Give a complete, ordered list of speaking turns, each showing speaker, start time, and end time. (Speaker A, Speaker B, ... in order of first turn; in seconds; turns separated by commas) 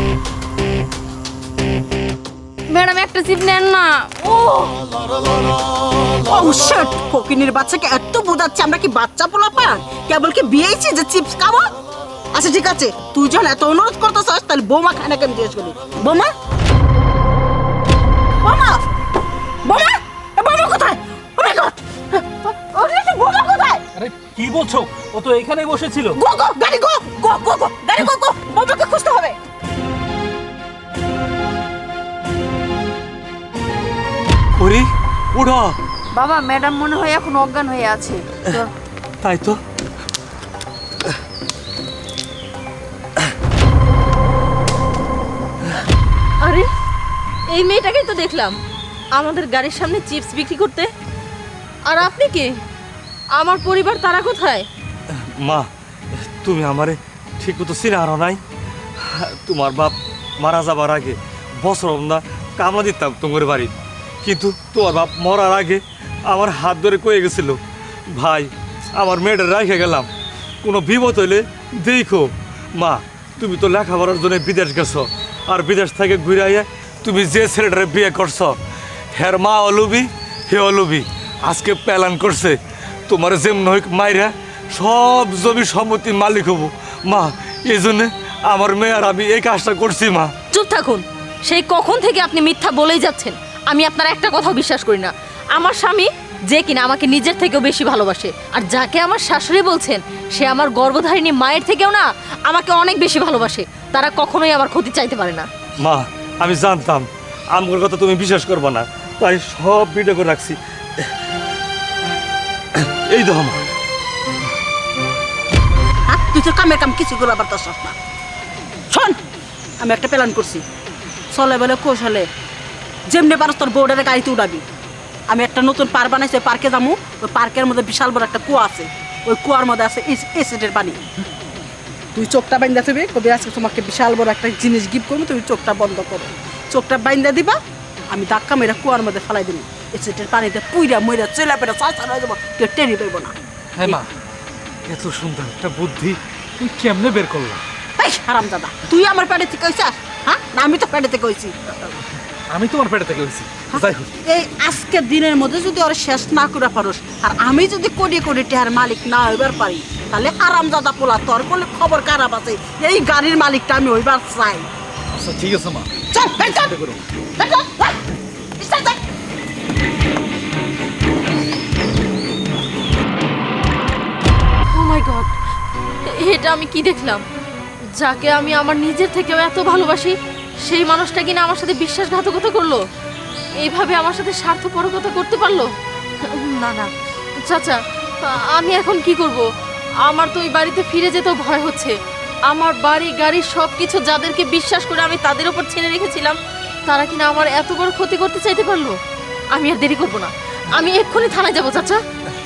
Speaker A: 2.7-4.1, Speaker B: 6.3-11.7, Speaker B: 12.3-16.3, Speaker B: 18.4-18.8, Speaker B: 19.6-23.8, Speaker C: 23.9-26.2, Speaker B: 26.1-29.4, Speaker D: 34.6-35.7, Speaker A: 36.1-38.7, Speaker D: 39.2-39.6, Speaker E: 46.4-46.7, Speaker E: 47.5-48.6, Speaker E: 49.1-50.9, Speaker E: 51.8-52.5, Speaker E: 53.3-54.6, Speaker D: 55.1-55.7, Speaker D: 56.4-58.4, Speaker D: 59.0-63.7, Speaker D: 64.2-67.6, Speaker D: 68.1-70.1, Speaker D: 70.6-78.5, Speaker D: 79.1-82.6, Speaker D: 83.1-90.3, Speaker E: 90.5-105.5, Speaker D: 105.8-111.1, Speaker D: 112.8-113.6, Speaker B: 116.1-117.9, Speaker B: 119.8-120.6, Speaker B: 121.3-122.3, Speaker B: 123.1-124.6, Speaker B: 125.3-131.0, Speaker B: 132.1-137.6, Speaker B: 138.1-143.3, Speaker C: 143.8-144.1, Speaker C: 144.9-147.6, Speaker B: 148.0-151.5, Speaker C: 152.5-154.1, Speaker B: 153.7-164.7, Speaker C: 165.1-167.0, Speaker B: 166.1-166.8, Speaker B: 167.4-168.0, Speaker B: 168.6-169.0, Speaker E: 174.7-175.3, Speaker E: 176.0-177.2, Speaker E: 178.0-182.8, Speaker E: 183.6-189.4, Speaker E: 190.1-191.9, Speaker E: 192.5-199.0, Speaker E: 199.5-202.0